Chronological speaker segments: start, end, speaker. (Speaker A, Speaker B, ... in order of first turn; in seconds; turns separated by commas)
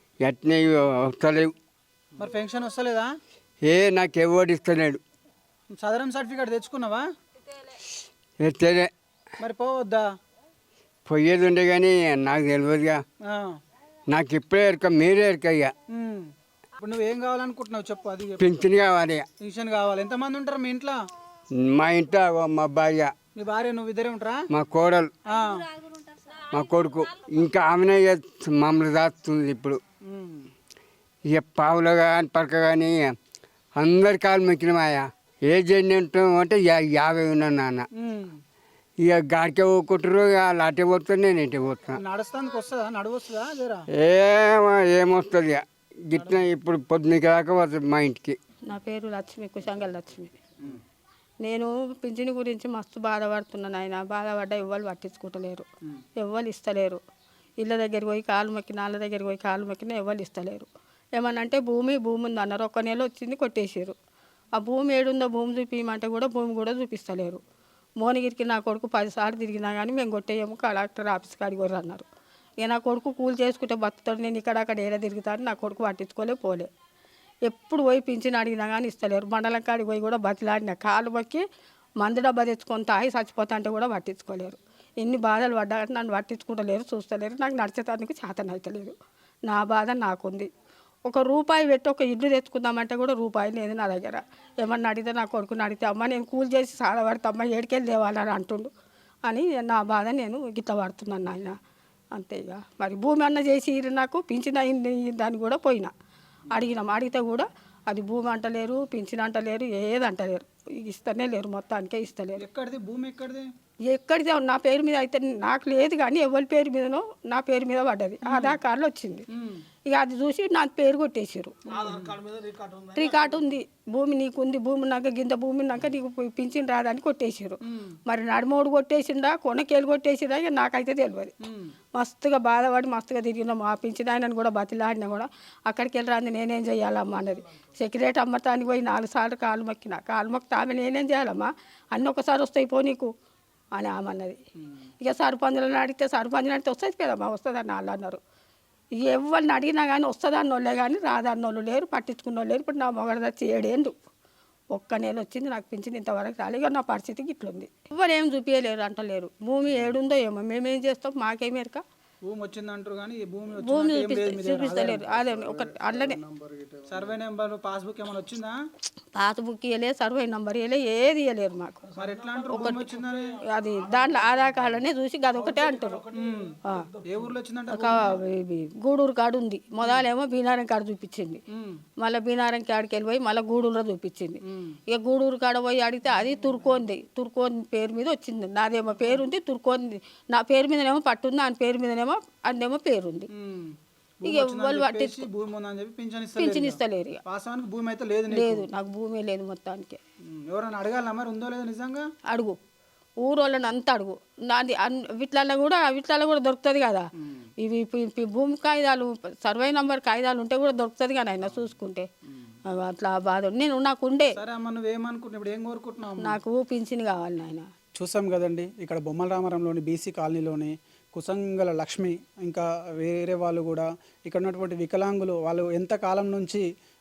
Speaker A: 0.2-1.5, Speaker B: 2.1-3.1, Speaker A: 3.6-5.0, Speaker B: 5.8-7.0, Speaker A: 8.4-8.9, Speaker B: 9.4-10.1, Speaker A: 11.1-13.0, Speaker A: 14.1-15.7, Speaker B: 15.9-18.6, Speaker A: 18.4-19.2, Speaker B: 19.4-21.0, Speaker A: 21.6-23.1, Speaker B: 23.4-24.4, Speaker A: 24.5-25.1, Speaker B: 25.3-25.7, Speaker A: 26.5-29.8, Speaker B: 30.1-30.5, Speaker A: 31.3-33.0, Speaker A: 33.8-37.9, Speaker B: 38.0-38.4, Speaker A: 39.0-42.0, Speaker B: 41.9-43.9, Speaker A: 44.0-48.4, Speaker C: 48.6-50.3, Speaker C: 51.4-55.6, Speaker C: 56.2-57.0, Speaker C: 57.6-64.0, Speaker C: 64.5-67.4, Speaker C: 68.0-72.0, Speaker C: 72.6-76.7, Speaker C: 77.5-81.4, Speaker C: 82.0-89.0, Speaker C: 89.5-90.5, Speaker C: 91.0-98.7, Speaker C: 99.2-101.5, Speaker C: 102.1-105.9, Speaker C: 106.5-112.4, Speaker B: 112.4-113.5, Speaker C: 113.9-119.2, Speaker B: 118.2-118.6, Speaker B: 119.3-119.6, Speaker C: 119.8-122.0, Speaker B: 121.7-122.4, Speaker C: 122.9-131.3, Speaker B: 127.7-128.0, Speaker B: 131.4-131.7, Speaker C: 131.9-143.1, Speaker C: 143.7-144.4, Speaker C: 145.0-148.2, Speaker C: 149.0-153.9, Speaker C: 154.7-161.8, Speaker B: 162.2-165.2, Speaker C: 163.6-166.2, Speaker B: 166.9-168.5, Speaker C: 169.1-171.9, Speaker B: 171.9-173.4, Speaker C: 172.4-176.1, Speaker B: 176.1-178.2, Speaker C: 176.6-176.9, Speaker C: 177.7-181.4, Speaker C: 182.0-193.3, Speaker B: 184.5-184.8, Speaker B: 193.3-198.7, Speaker C: 194.2-195.2, Speaker C: 196.4-197.2, Speaker C: 198.3-200.0, Speaker B: 200.3-202.1, Speaker C: 202.3-202.6, Speaker C: 203.2-207.1, Speaker C: 207.6-212.1, Speaker C: 212.7-214.4, Speaker B: 214.3-216.4, Speaker C: 216.2-217.7, Speaker B: 218.0-226.6